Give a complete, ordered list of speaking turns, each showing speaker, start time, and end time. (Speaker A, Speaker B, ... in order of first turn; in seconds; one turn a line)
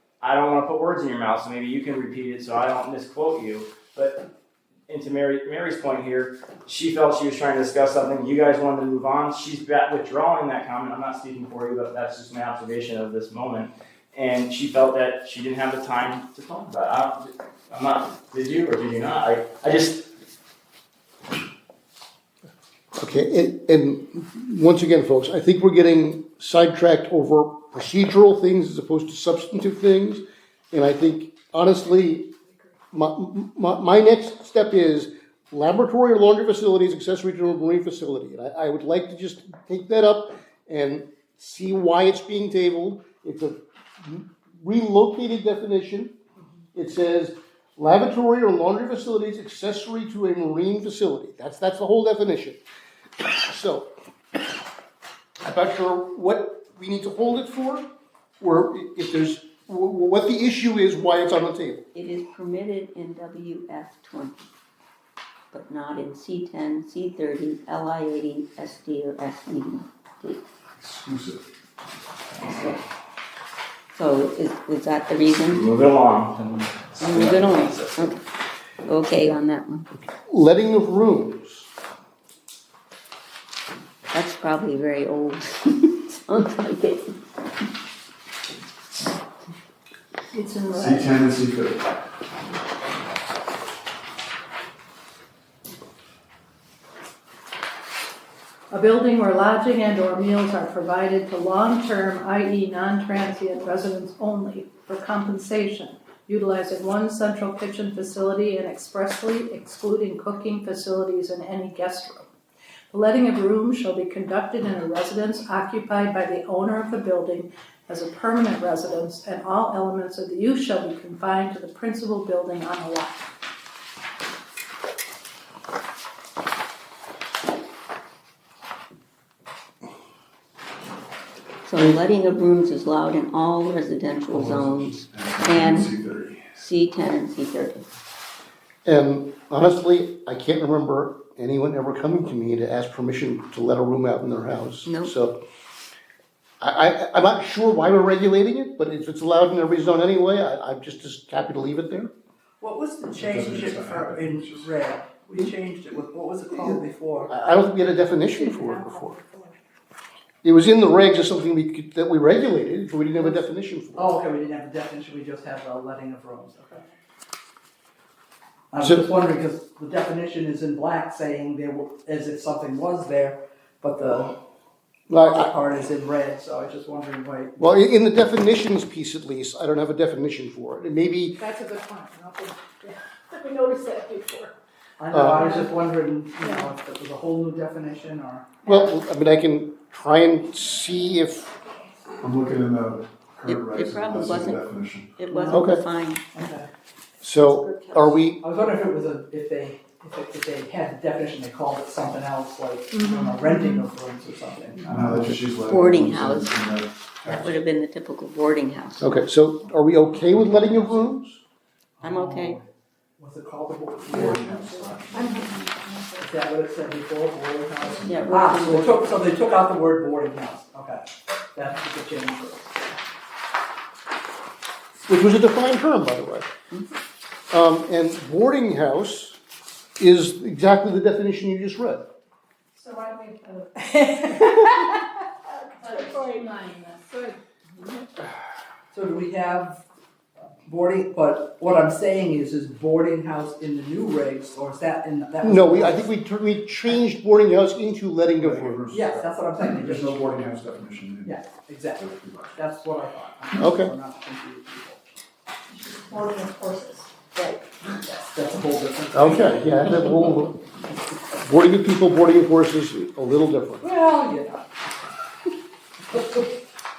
Speaker A: 0.2-4.2
Speaker A: 4.9-20.0
Speaker B: 22.9-32.3
Speaker B: 32.9-46.1
Speaker B: 46.7-52.6
Speaker B: 53.2-53.9
Speaker B: 55.4-57.9
Speaker B: 58.4-61.8
Speaker C: 61.9-64.5
Speaker C: 65.5-70.4
Speaker D: 70.8-71.4
Speaker C: 72.4-72.8
Speaker C: 73.9-75.6
Speaker A: 75.5-78.1
Speaker C: 77.0-78.2
Speaker C: 78.8-79.9
Speaker B: 80.2-81.7
Speaker C: 84.1-87.1
Speaker E: 90.3-91.2
Speaker D: 90.7-92.0
Speaker E: 98.7-112.3
Speaker E: 112.9-123.3
Speaker C: 131.7-136.0
Speaker D: 134.3-136.5
Speaker C: 136.6-137.9
Speaker B: 138.8-145.4
Speaker C: 144.8-145.1
Speaker B: 146.6-152.1
Speaker F: 152.6-157.3
Speaker D: 153.1-154.7
Speaker B: 156.6-159.2
Speaker E: 157.9-159.6
Speaker B: 160.4-164.2
Speaker E: 163.2-163.5
Speaker F: 163.9-166.8
Speaker F: 168.7-174.4
Speaker B: 168.8-169.1
Speaker B: 175.1-175.5
Speaker F: 175.1-177.8
Speaker B: 177.6-181.4
Speaker E: 181.4-184.5
Speaker F: 185.0-188.5
Speaker B: 185.1-185.6
Speaker E: 185.4-185.7
Speaker E: 186.4-186.7
Speaker B: 188.6-191.5
Speaker D: 192.2-195.1
Speaker C: 193.5-196.4
Speaker F: 195.2-195.7
Speaker B: 195.5-195.8
Speaker F: 196.3-196.7
Speaker B: 197.2-198.4
Speaker E: 197.4-198.1
Speaker F: 198.4-204.9
Speaker E: 202.9-203.9
Speaker D: 204.8-207.6
Speaker C: 205.7-206.7
Speaker C: 207.2-209.1
Speaker B: 209.0-211.4
Speaker D: 210.2-211.1
Speaker F: 212.0-212.7
Speaker C: 212.0-212.6
Speaker F: 213.2-214.6
Speaker D: 214.1-215.7
Speaker E: 214.1-216.3
Speaker F: 216.2-223.0
Speaker D: 217.8-218.5
Speaker C: 218.0-219.2
Speaker B: 225.1-226.5
Speaker B: 227.5-229.4
Speaker B: 230.0-232.0
Speaker E: 232.8-235.0
Speaker E: 235.7-237.3
Speaker F: 238.9-239.8
Speaker F: 240.7-246.1
Speaker B: 245.4-248.9
Speaker D: 248.4-251.4
Speaker F: 248.9-250.2
Speaker F: 251.2-255.0
Speaker D: 251.9-252.6
Speaker B: 253.5-253.9
Speaker E: 255.7-257.6
Speaker F: 258.0-259.8
Speaker B: 259.1-260.6
Speaker B: 261.4-263.9
Speaker F: 263.8-264.7